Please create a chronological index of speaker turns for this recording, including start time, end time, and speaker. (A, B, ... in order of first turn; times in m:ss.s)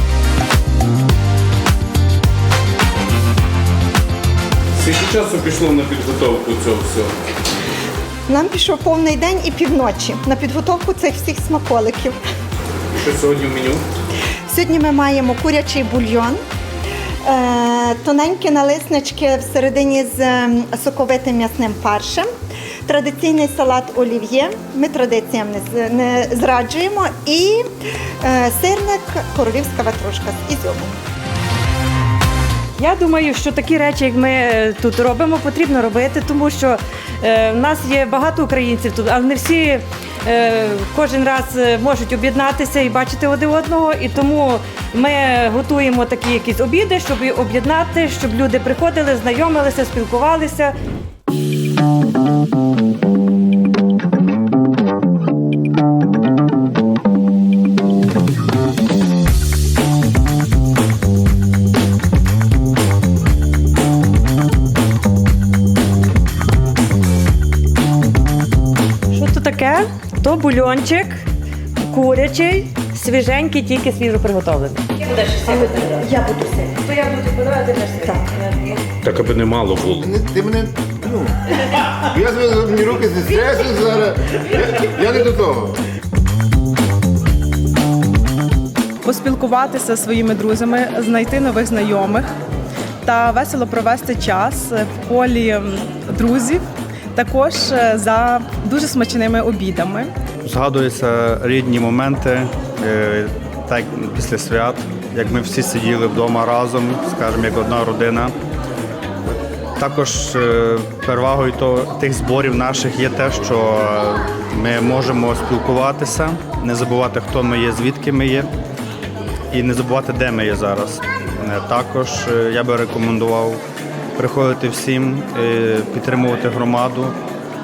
0:04.8-0:07.1 A
0:08.3-0:12.2 B
0:13.0-0:13.8 A
0:14.5-0:16.4 B
0:17.2-0:22.3 B
0:22.8-0:27.6 B
0:28.2-0:30.9 B
0:32.8-0:50.7 C
1:09.1-1:11.2 C
1:11.8-1:18.5 C
1:19.0-1:20.2 A
1:20.0-1:21.4 D
1:22.0-1:25.8 D
1:29.0-1:32.3 E
1:33.0-1:40.1 E
1:40.4-1:48.3 F
1:49.8-1:58.5 F
1:59.5-2:03.6 F
2:04.2-2:07.1 F